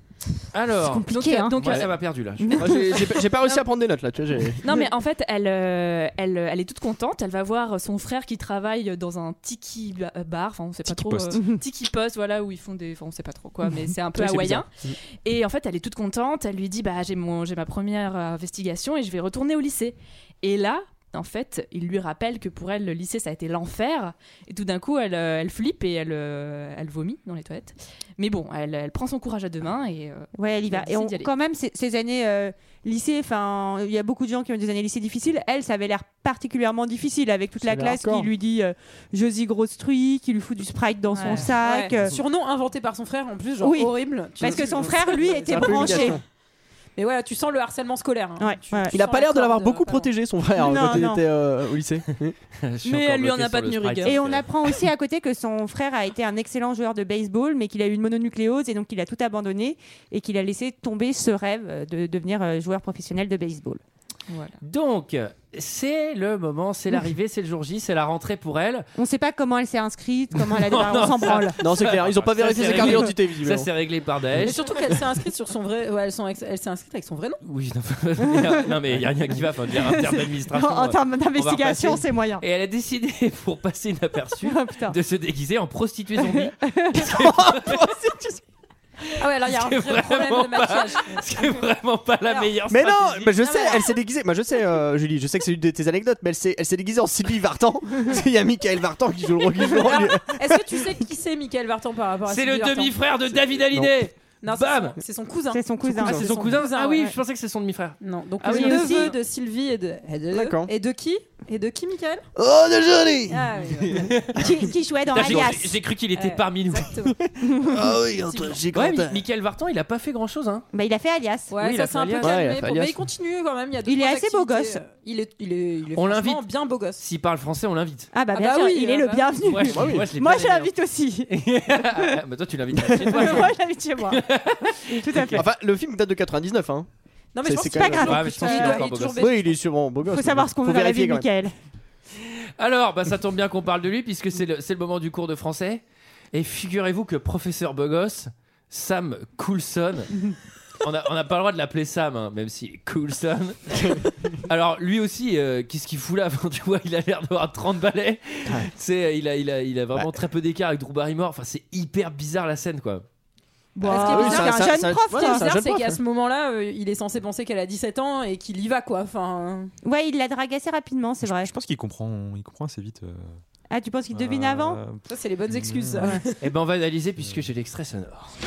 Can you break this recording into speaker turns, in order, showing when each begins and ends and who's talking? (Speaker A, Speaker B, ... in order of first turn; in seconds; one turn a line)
Speaker A: 0.5-2.7
Speaker B: 0.8-1.9
Speaker C: 1.1-1.9
Speaker B: 2.4-3.0
Speaker D: 2.6-4.7
Speaker C: 4.6-14.7
Speaker E: 10.9-11.4
Speaker A: 14.2-14.6
Speaker C: 15.2-31.3
Speaker B: 30.4-42.2
Speaker D: 37.6-38.3
Speaker C: 41.1-41.5
Speaker F: 41.3-46.2
Speaker B: 43.6-46.2
Speaker D: 45.5-46.2
Speaker F: 47.0-50.1
Speaker B: 48.4-49.0
Speaker D: 48.9-52.4
Speaker B: 50.6-51.2
Speaker A: 52.6-54.5
Speaker C: 52.9-54.2
Speaker B: 54.0-63.8
Speaker C: 64.3-64.6
Speaker A: 64.6-68.9
Speaker B: 69.0-71.6
Speaker A: 70.5-74.8
Speaker D: 71.6-73.7
Speaker F: 74.4-77.4
Speaker A: 77.4-86.5
Speaker B: 79.8-82.4
Speaker B: 84.4-85.0
Speaker B: 86.2-87.3
Speaker D: 87.0-88.4
Speaker A: 87.1-87.8
Speaker F: 89.2-91.2
Speaker A: 89.5-93.4
Speaker D: 92.7-100.8
Speaker F: 93.4-93.9
Speaker F: 99.7-103.0
Speaker A: 102.3-105.0
Speaker F: 104.4-107.1
Speaker B: 105.5-106.3
Speaker A: 106.0-109.1
Speaker F: 108.0-112.2
Speaker B: 108.5-109.2
Speaker D: 110.3-110.7
Speaker D: 112.4-114.1
Speaker F: 113.3-114.1
Speaker A: 113.9-114.5
Speaker B: 114.4-115.8
Speaker A: 115.1-116.9
Speaker F: 116.1-117.2
Speaker B: 117.5-117.8
Speaker D: 117.6-119.2
Speaker A: 118.7-120.7
Speaker B: 120.7-121.5
Speaker F: 121.5-127.0
Speaker A: 121.6-122.4
Speaker D: 122.2-123.0
Speaker B: 123.8-124.8
Speaker A: 126.0-126.5
Speaker A: 127.0-128.1
Speaker B: 128.1-132.2
Speaker F: 128.3-129.4
Speaker A: 129.4-130.7
Speaker D: 129.7-130.1
Speaker A: 131.3-133.6
Speaker B: 132.8-134.2
Speaker A: 134.1-135.4
Speaker B: 134.9-135.4
Speaker D: 135.3-136.9
Speaker F: 137.3-139.6
Speaker D: 137.4-141.3
Speaker B: 137.7-138.8
Speaker A: 138.0-139.2
Speaker B: 140.1-141.5
Speaker A: 142.2-150.1
Speaker A: 150.8-163.1
Speaker B: 163.8-165.5
Speaker D: 163.8-166.0
Speaker F: 163.8-169.7
Speaker B: 169.8-171.5
Speaker E: 171.2-173.4
Speaker B: 173.7-174.8
Speaker E: 174.1-176.2
Speaker F: 175.1-176.4
Speaker A: 176.4-178.3